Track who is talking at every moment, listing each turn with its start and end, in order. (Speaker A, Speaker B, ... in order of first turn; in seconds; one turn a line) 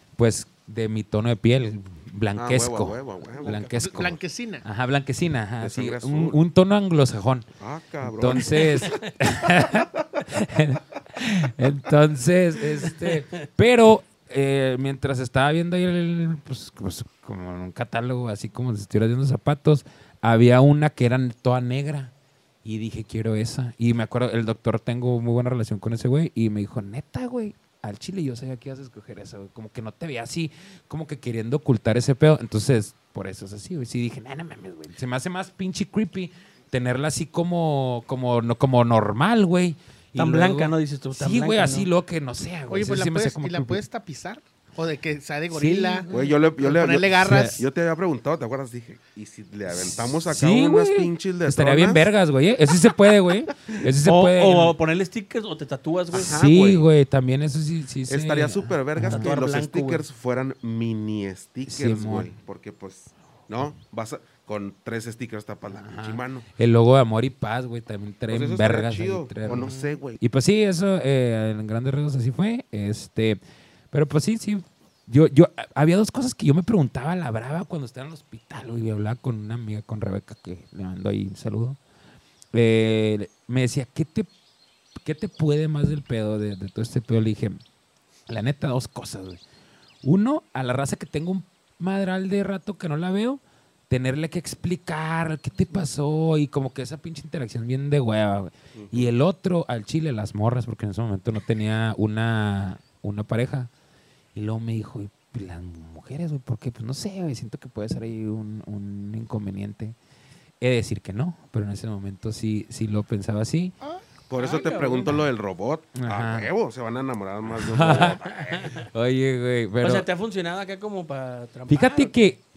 Speaker A: 0.2-7.5
Speaker B: 2.4-3.6
Speaker C: 3.4-4.7
Speaker B: 5.6-6.4
Speaker B: 7.6-8.9
Speaker A: 8.1-22.1
Speaker D: 8.4-9.1
Speaker A: 22.6-43.8
Speaker D: 40.2-41.9
Speaker C: 42.7-47.6
Speaker A: 45.5-46.2
Speaker B: 46.1-52.1
Speaker A: 47.2-47.6
Speaker A: 49.7-54.8
Speaker D: 54.0-56.4
Speaker B: 56.1-56.9
Speaker A: 56.1-59.3
Speaker B: 58.1-66.5
Speaker D: 59.0-60.0
Speaker A: 61.7-62.3
Speaker A: 65.7-73.4
Speaker B: 68.3-70.2
Speaker C: 69.5-70.0
Speaker A: 73.9-81.8
Speaker A: 82.5-84.3
Speaker A: 85.0-87.6
Speaker A: 88.3-89.4
Speaker A: 90.0-103.7
Speaker B: 98.7-99.1
Speaker A: 104.3-110.0
Speaker A: 110.6-113.8
Speaker C: 113.8-114.6
Speaker B: 114.3-118.7
Speaker D: 114.4-115.3
Speaker A: 116.0-116.5
Speaker A: 117.6-118.2
Speaker D: 118.2-118.8
Speaker A: 118.7-120.1
Speaker D: 119.8-122.3
Speaker A: 121.7-122.4